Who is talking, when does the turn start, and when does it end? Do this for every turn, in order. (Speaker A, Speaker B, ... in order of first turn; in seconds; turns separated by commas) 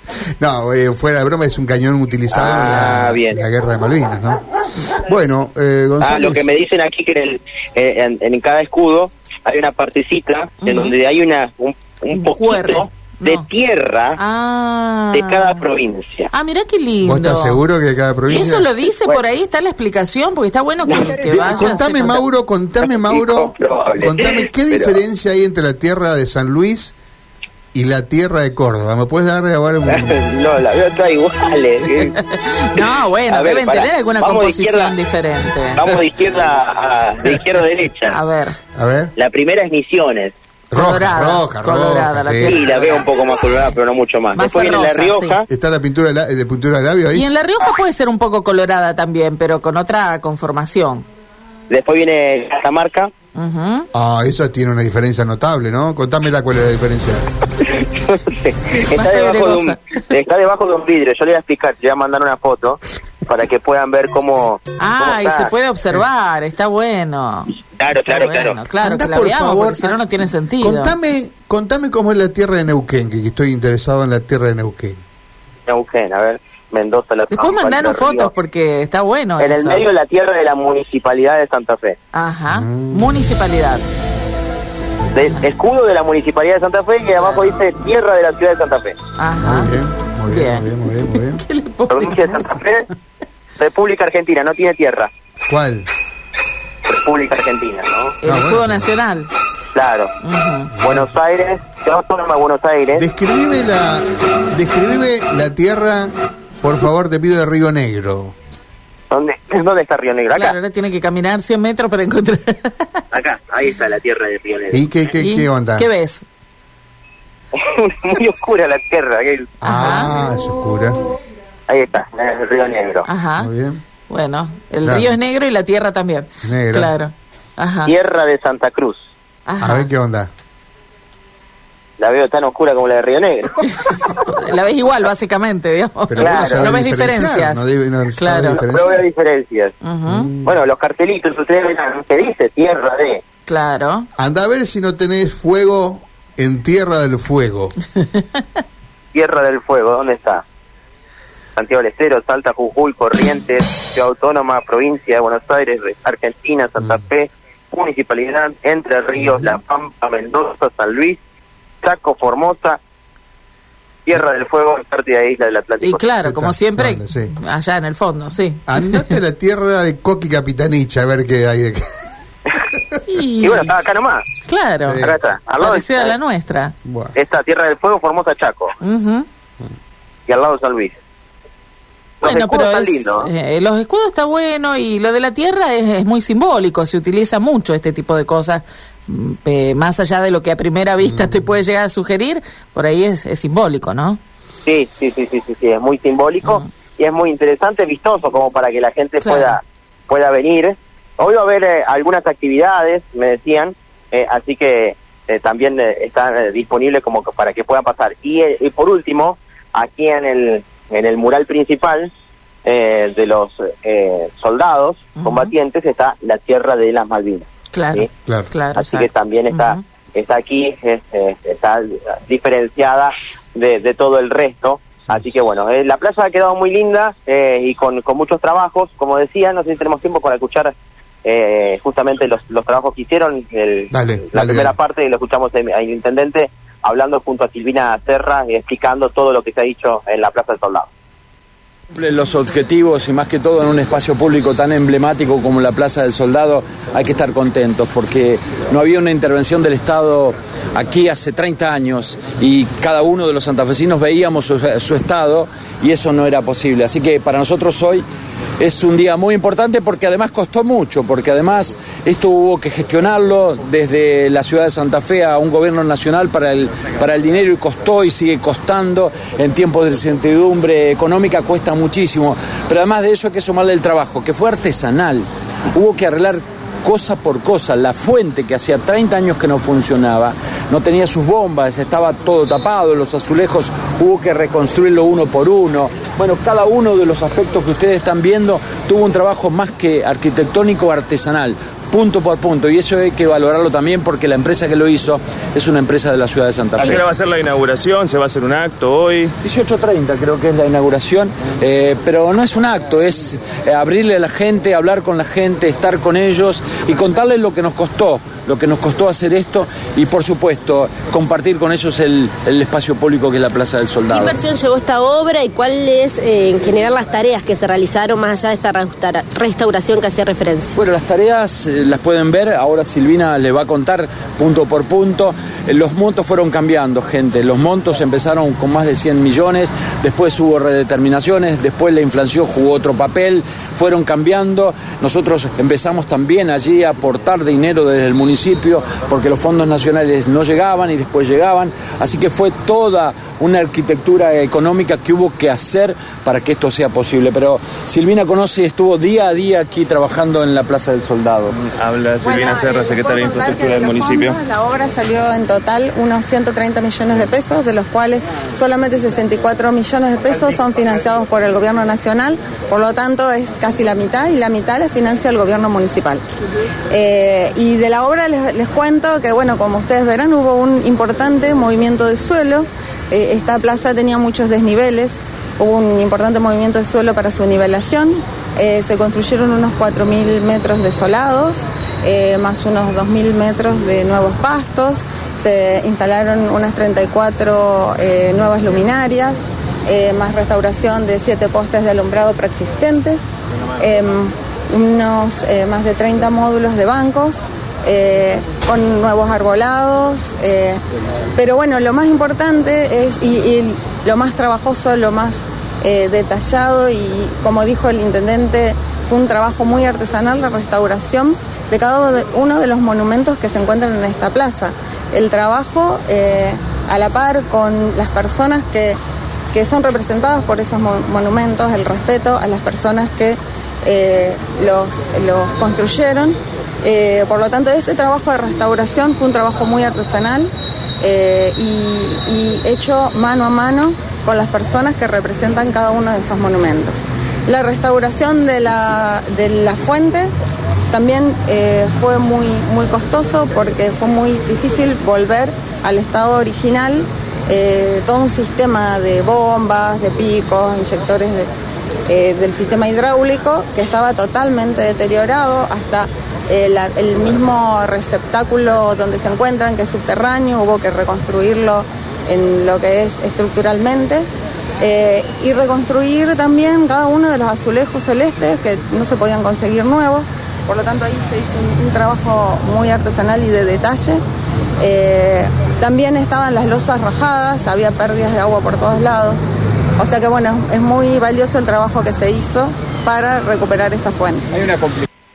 Speaker A: 0.4-6.5, Speaker B: 2.3-3.4, Speaker B: 6.0-14.2, Speaker C: 10.6-10.9, Speaker C: 12.1-13.5, Speaker C: 14.2-15.6, Speaker B: 15.1-16.3, Speaker C: 16.3-17.6, Speaker A: 17.0-18.7, Speaker C: 18.3-22.2, Speaker B: 20.9-21.7, Speaker A: 21.3-26.9, Speaker B: 22.9-25.0, Speaker A: 27.7-30.1, Speaker B: 29.9-32.2, Speaker C: 32.1-36.0, Speaker B: 32.8-34.9, Speaker B: 35.8-38.2, Speaker C: 38.1-38.6, Speaker A: 38.8-39.1, Speaker B: 39.2-40.3, Speaker A: 40.7-42.6, Speaker C: 40.7-43.1, Speaker B: 42.4-45.5, Speaker C: 44.4-45.4, Speaker A: 45.5-47.3, Speaker C: 47.1-51.1, Speaker B: 51.7-53.1, Speaker C: 53.3-53.9, Speaker A: 53.9-57.2, Speaker B: 57.6-65.5, Speaker C: 58.9-59.8, Speaker C: 64.8-71.0, Speaker B: 67.8-68.6, Speaker A: 68.8-70.1, Speaker A: 70.6-75.0, Speaker B: 75.7-78.3, Speaker C: 77.3-79.9, Speaker B: 79.4-82.0, Speaker C: 82.1-83.8, Speaker A: 82.5-83.2, Speaker B: 85.1-89.0, Speaker C: 89.2-89.7, Speaker A: 89.4-91.4, Speaker C: 90.3-92.6, Speaker B: 91.9-92.9, Speaker B: 93.6-95.1, Speaker A: 95.5-95.9, Speaker B: 96.9-98.2, Speaker C: 98.2-99.3, Speaker A: 98.2-98.9, Speaker B: 99.7-100.1, Speaker C: 100.2-100.7, Speaker A: 100.8-101.1, Speaker B: 100.8-103.1, Speaker A: 103.0-108.3, Speaker B: 109.1-110.5, Speaker C: 110.3-113.0, Speaker B: 113.1-114.9, Speaker A: 114.7-115.9, Speaker C: 115.2-116.2, Speaker B: 117.5-119.5, Speaker C: 119.6-120.1, Speaker A: 119.6-121.0, Speaker B: 121.7-123.1, Speaker C: 123.1-123.5, Speaker A: 123.4-123.8, Speaker C: 124.1-127.9, Speaker A: 124.8-125.2, Speaker A: 126.4-126.9, Speaker B: 127.9-129.1, Speaker C: 129.5-129.9, Speaker A: 129.6-130.3, Speaker B: 132.0-133.8, Speaker C: 133.9-137.6, Speaker A: 136.1-139.0, Speaker B: 136.2-136.8, Speaker C: 138.2-138.6, Speaker B: 138.5-139.8, Speaker C: 139.8-140.3, Speaker A: 140.1-140.6, Speaker B: 140.4-143.2, Speaker C: 143.5-144.1, Speaker A: 144.2-147.8, Speaker B: 149.1-150.4, Speaker B: 151.6-161.2, Speaker B: 161.8-162.8, Speaker B: 164.1-166.1, Speaker C: 165.8-169.2, Speaker A: 166.2-167.3, Speaker A: 168.7-171.8, Speaker C: 173.1-173.7, Speaker B: 173.4-174.2, Speaker C: 174.4-176.7, Speaker A: 174.9-175.2, Speaker B: 175.0-176.2, Speaker A: 176.8-177.1, Speaker B: 177.2-178.8, Speaker C: 178.8-179.3, Speaker B: 180.3-181.0, Speaker B: 182.2-183.3, Speaker C: 182.2-194.2, Speaker A: 191.0-191.5, Speaker B: 194.7-212.1, Speaker C: 199.2-199.6, Speaker B: 212.7-218.1, Speaker C: 215.2-215.5, Speaker C: 217.7-219.8, Speaker B: 218.8-230.7, Speaker B: 231.2-240.9, Speaker A: 233.9-234.7, Speaker D: 241.9-258.1, Speaker D: 258.6-297.0, Speaker E: 296.8-299.4, Speaker D: 299.4-314.4, Speaker F: 314.1-320.8, Speaker D: 320.8-351.6, Speaker E: 351.6-354.4, Speaker G: 352.2-366.2, Speaker G: 366.9-393.2, Speaker G: 393.8-400.8, Speaker G: 401.4-419.0, Speaker G: 419.5-436.9, Speaker G: 437.5-440.3, Speaker G: 440.9-451.5, Speaker G: 452.1-464.2, Speaker G: 464.8-474.2, Speaker G: 474.8-479.4, Speaker G: 480.0-484.7